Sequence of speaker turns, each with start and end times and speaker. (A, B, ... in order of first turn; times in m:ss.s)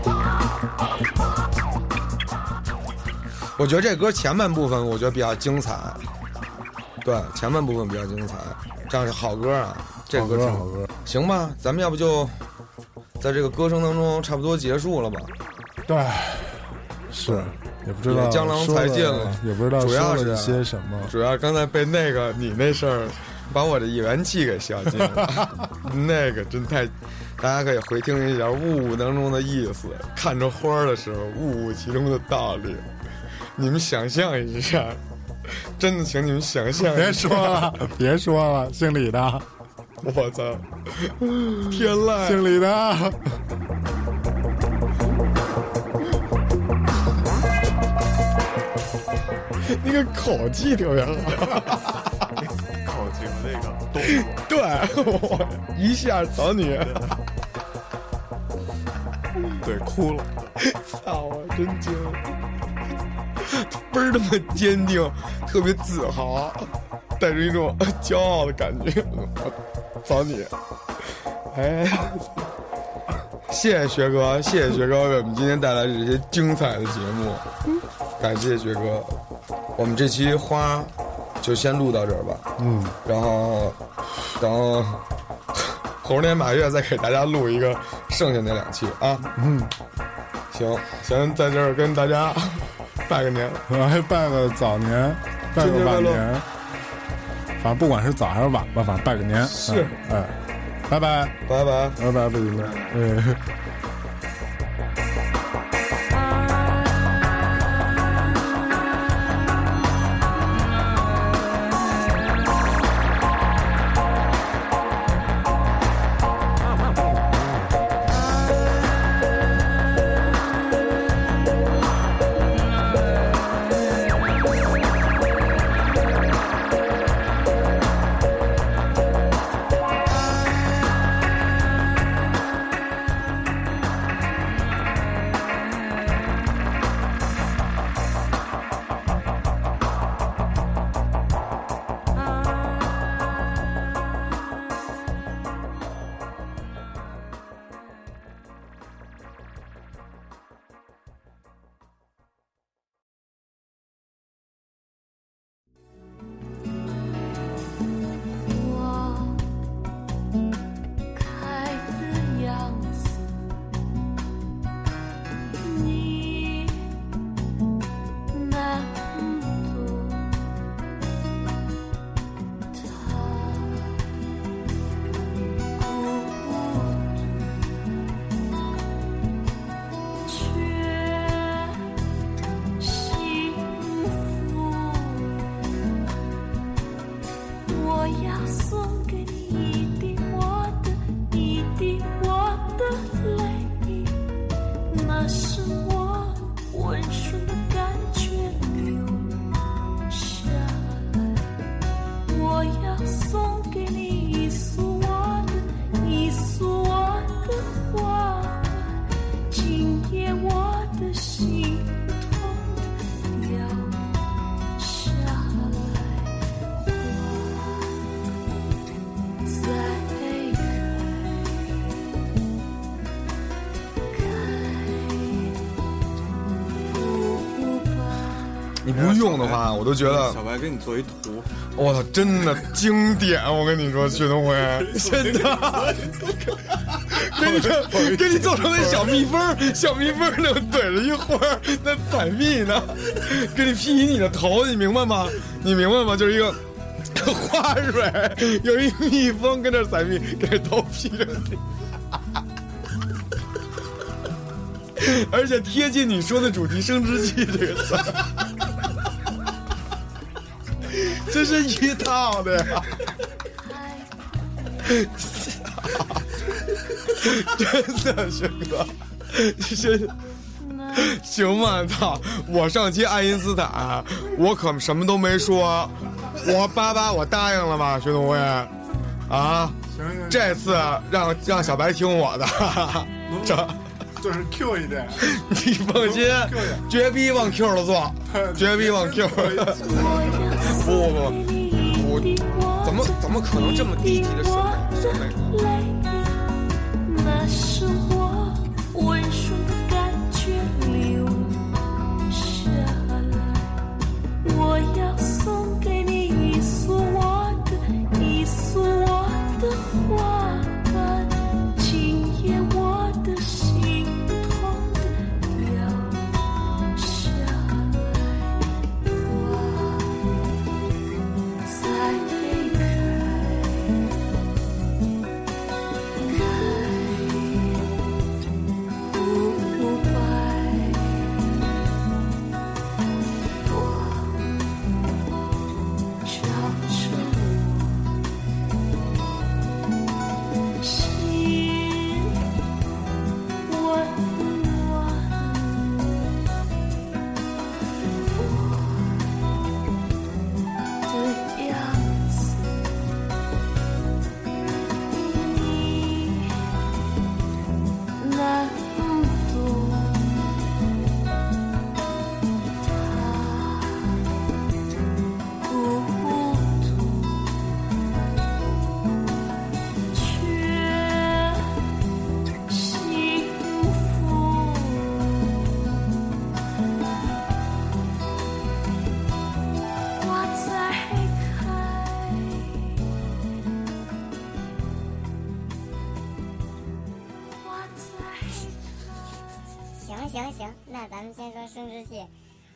0:03.6-0:06.0 A
0:07.0-0:12.4 A
0:10.1-0:10.9 B
0:13.2-0:15.3 A
0:15.9-0:21.1 B
0:17.2-0:32.9 A
0:33.6-0:37.9 A
0:36.9-0:39.4 B
0:40.0-0:42.5 A
0:42.2-0:43.3 B
0:49.6-0:52.1 A
0:52.8-0:54.5 C
0:54.0-0:57.1 A
0:56.9-0:57.1 C
0:59.6-1:00.6 C
1:00.6-1:02.2 A
1:03.4-1:10.5 A
1:11.5-1:12.4 A
1:13.5-1:17.5 A
1:18.2-1:19.2 A
1:19.8-1:22.5 A
1:22.6-1:23.0 B
1:23.0-1:23.8 A
1:24.4-1:25.0 A
1:25.6-1:29.3 A
1:29.3-1:29.7 B
1:30.5-1:33.7 A
1:33.7-1:36.5 B
1:35.5-1:36.3 A
1:37.6-1:41.4 B
1:39.4-1:40.0 A
1:41.5-1:42.0 A
1:42.0-1:43.4 B
2:38.5-2:39.5 D
2:41.1-2:43.5 D
2:45.6-2:46.9 D
2:48.3-2:50.4 D
2:52.7-2:54.0 D
2:55.8-2:57.4 D
3:00.2-3:01.8 D
3:02.8-3:05.7 D
3:07.7-3:14.2 D
3:14.9-3:19.4 D
3:20.1-3:21.4 D
3:22.3-3:34.1 D
3:34.8-3:38.0 D
3:39.4-3:41.8 D
3:44.1-3:45.6 D
3:46.8-3:48.5 D
3:48.8-3:50.4 A
3:48.9-3:51.5 C
3:51.8-4:11.6 A
3:55.2-3:56.5 C
3:57.8-3:59.1 C
4:15.0-4:18.4 A
4:20.9-4:23.1 A
4:23.6-4:24.9 D
4:24.9-4:30.2 A
4:30.6-4:31.4 D
4:30.9-4:38.7 A
4:39.3-4:43.8 A
4:39.9-4:41.0 B
4:43.3-4:45.3 B
4:45.2-4:51.4 A
4:46.0-4:46.9 B
4:48.3-4:50.1 B
4:49.8-4:56.4 D
4:51.9-4:55.6 A
4:57.0-5:01.6 D
5:02.3-5:03.7 D
5:04.4-5:16.3 D
5:16.9-5:18.5 D
5:19.2-5:20.2 D
5:21.6-5:24.0 D
5:26.2-5:27.9 D
5:29.1-5:31.4 D
5:33.6-5:34.8 D
5:36.2-5:38.1 D
5:40.8-5:42.3 D
5:43.7-5:46.3 D
5:48.3-5:49.3 D
5:51.1-5:52.9 D
5:55.0-5:56.6 D
5:58.2-6:00.5 D
6:02.8-6:04.2 D
6:05.6-6:07.5 D
6:10.1-6:11.8 D
6:12.7-6:15.5 D
6:20.2-6:22.8 D
6:27.6-6:28.7 D
6:30.0-6:32.3 E